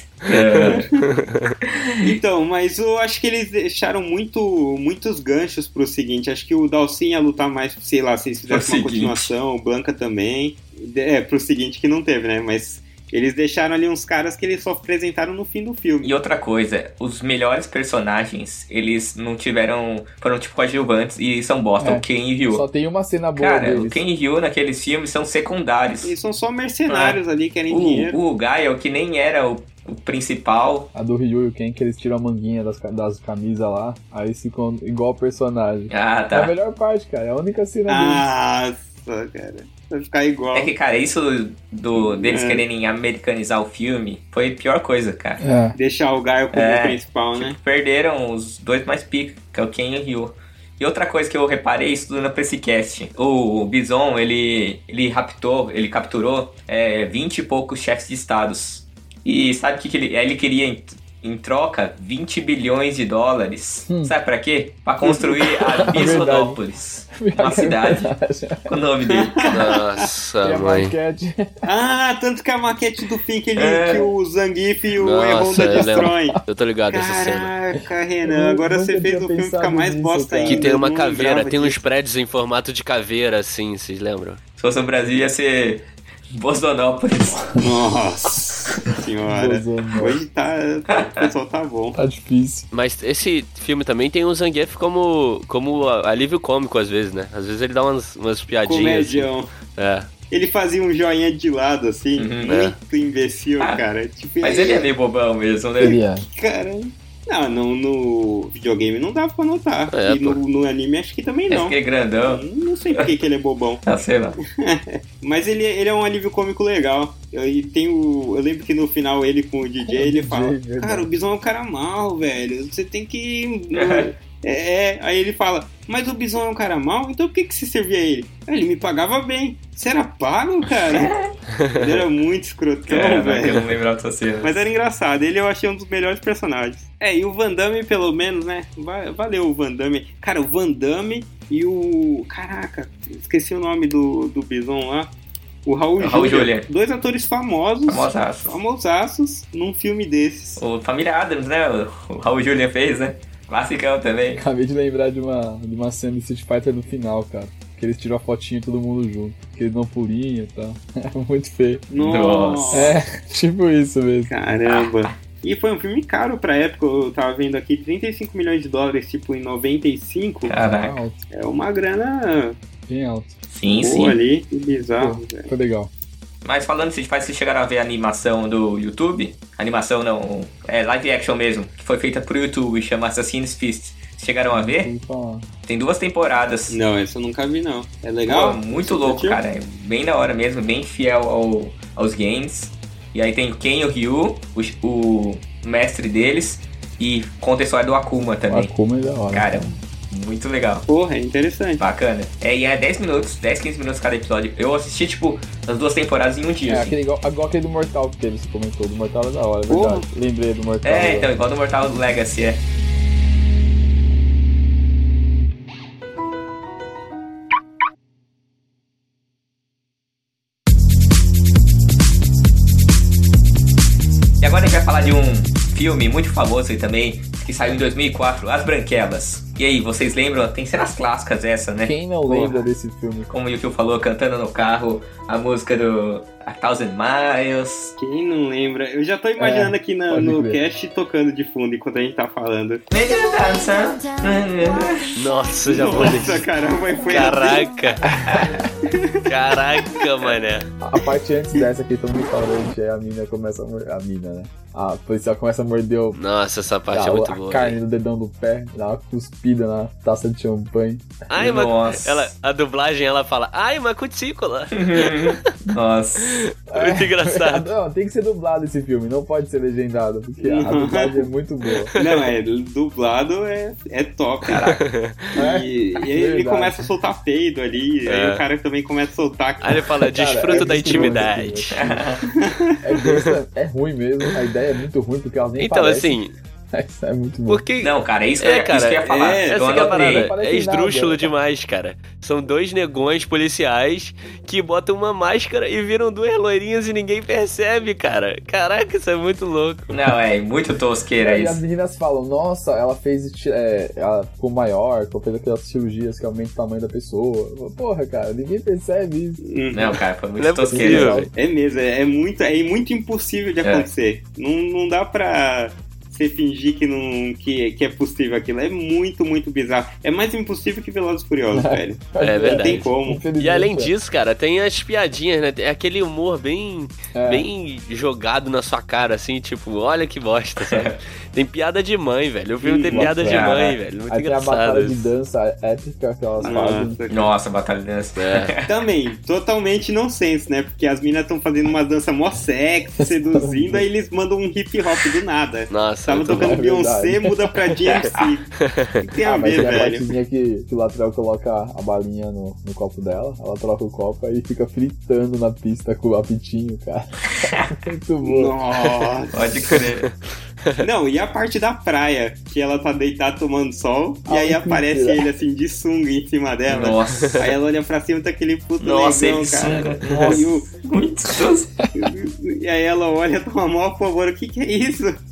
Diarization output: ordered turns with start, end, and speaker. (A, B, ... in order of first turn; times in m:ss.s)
0:00.2-0:00.9 A
0:00.4-0:01.5 B
0:00.6-0:00.9 C
0:01.6-0:02.1 A
0:02.0-0:16.1 C
0:08.5-0:09.3 A
0:16.0-0:22.6 A
0:21.8-0:24.0 D
0:23.4-0:26.1 A
0:26.0-0:28.2 C
0:26.9-0:30.9 A
0:30.9-0:38.3 D
0:35.9-0:36.5 A
0:37.9-0:40.7 C
0:40.5-0:45.4 A
0:41.9-0:42.6 C
0:45.4-0:45.8 D
0:45.8-0:47.6 C
0:46.5-1:08.1 A
1:03.9-1:04.1 D
1:05.8-1:06.6 D
1:07.1-1:08.7 D
1:08.7-1:09.6 A
1:09.1-1:10.0 C
1:09.5-1:10.9 B
1:10.4-1:11.6 D
1:11.6-1:16.4 C
1:13.6-1:14.1 A
1:15.0-1:17.5 B
1:15.6-1:16.4 D
1:16.9-1:21.8 C
1:18.2-1:20.7 D
1:20.4-1:24.4 B
1:24.6-1:27.6 A
1:27.6-1:32.0 C
1:29.3-1:30.2 D
1:31.9-1:32.7 D
1:32.7-1:40.1 B
1:38.6-1:39.5 C
1:40.3-1:44.9 C
1:42.2-1:42.6 A
1:42.5-1:42.8 B
1:44.4-1:46.0 A
1:45.8-1:46.2 D
1:45.8-1:53.8 C
1:49.9-1:50.4 B
1:51.5-1:53.1 A
1:53.8-1:54.4 A
1:54.6-2:11.1 C
1:59.8-2:01.1 D
2:03.7-2:04.1 A
2:10.9-2:11.3 A
2:11.6-2:12.0 B
2:11.8-2:13.7 C
2:12.9-2:14.7 A
2:14.4-2:25.1 C
2:25.6-2:30.6 C
2:26.0-2:26.7 A
2:27.9-2:28.6 A
2:30.6-2:34.4 A
2:34.4-2:41.9 D
2:41.9-2:42.9 C
2:42.0-2:43.0 A
2:42.7-2:44.3 D
2:44.3-2:50.6 C
2:44.6-2:45.1 A
2:50.5-2:51.0 A
2:50.6-2:51.2 D
2:51.3-2:52.6 C
2:52.9-2:53.4 D
2:53.5-2:54.2 A
2:53.8-2:55.5 C
2:55.0-2:55.9 D
2:56.4-3:04.9 A
3:04.5-3:05.5 D
3:05.7-3:06.8 A
3:06.7-3:09.4 C
3:08.3-3:18.7 A
3:18.5-3:19.8 D
3:19.3-3:20.9 A
3:20.9-3:21.8 C
3:21.8-3:27.0 A
3:26.7-3:31.3 D
3:29.7-3:30.1 C
3:30.8-3:32.6 A
3:44.4-3:52.0 A
3:51.8-3:53.3 D
3:52.3-3:52.6 C
3:53.3-3:57.9 A
3:58.0-4:02.8 C
3:59.4-4:00.6 D
4:02.9-4:05.2 A
4:05.2-4:06.5 B
4:05.6-4:07.7 C
4:07.1-4:08.1 B
4:08.1-4:08.5 D
4:08.2-4:08.6 A
4:08.9-4:09.6 C
4:09.3-4:10.7 B
4:10.8-4:16.2 D
4:16.1-4:17.8 B
4:16.9-4:21.2 D
4:21.3-4:25.5 B
4:21.4-4:22.3 A
4:24.8-4:26.5 A
4:26.2-4:27.7 B
4:26.7-4:31.9 D
4:30.4-4:31.3 C
4:31.8-4:32.3 B
4:32.0-4:34.8 C
4:34.5-4:34.8 A
4:34.6-4:35.4 B
4:35.4-4:36.9 D
4:35.4-4:39.9 C
4:38.1-4:38.4 B
4:39.6-4:41.8 B
4:40.1-4:42.1 D
4:40.5-4:41.3 C
4:41.7-4:42.2 A
4:42.4-4:42.8 C
4:42.8-4:46.2 D
4:43.0-4:43.4 B
4:45.6-4:46.3 B
4:46.7-4:47.6 D
4:47.5-5:00.0 B
4:47.8-4:50.3 A
4:49.1-4:49.6 C
4:49.7-4:51.3 D
4:59.9-5:01.6 A
5:01.2-5:09.4 D
5:09.4-5:10.0 C
5:09.7-5:11.2 A
5:10.4-5:11.3 B
5:10.7-5:11.3 D
5:11.3-5:23.2 C
5:21.5-5:23.9 D
5:22.2-5:35.1 B
5:27.1-5:27.5 D
5:30.6-5:30.9 A
5:32.6-5:33.1 C
5:32.9-5:33.6 D
5:33.3-5:33.8 A
5:34.1-5:37.0 D
5:36.4-5:37.3 C
5:37.1-5:38.7 A
5:38.2-5:38.5 B
5:38.7-5:50.1 C
5:43.0-5:43.9 D
5:45.7-5:46.6 B
5:46.3-5:47.5 D
5:48.6-5:49.9 B
5:49.2-5:58.5 D
5:57.4-5:57.7 A
5:58.2-5:59.6 C
5:59.3-6:00.1 A
6:00.8-6:10.7 C
6:04.3-6:05.3 D
6:06.7-6:07.4 A
6:08.8-6:11.7 A
6:10.0-6:10.5 D
6:12.0-6:15.2 C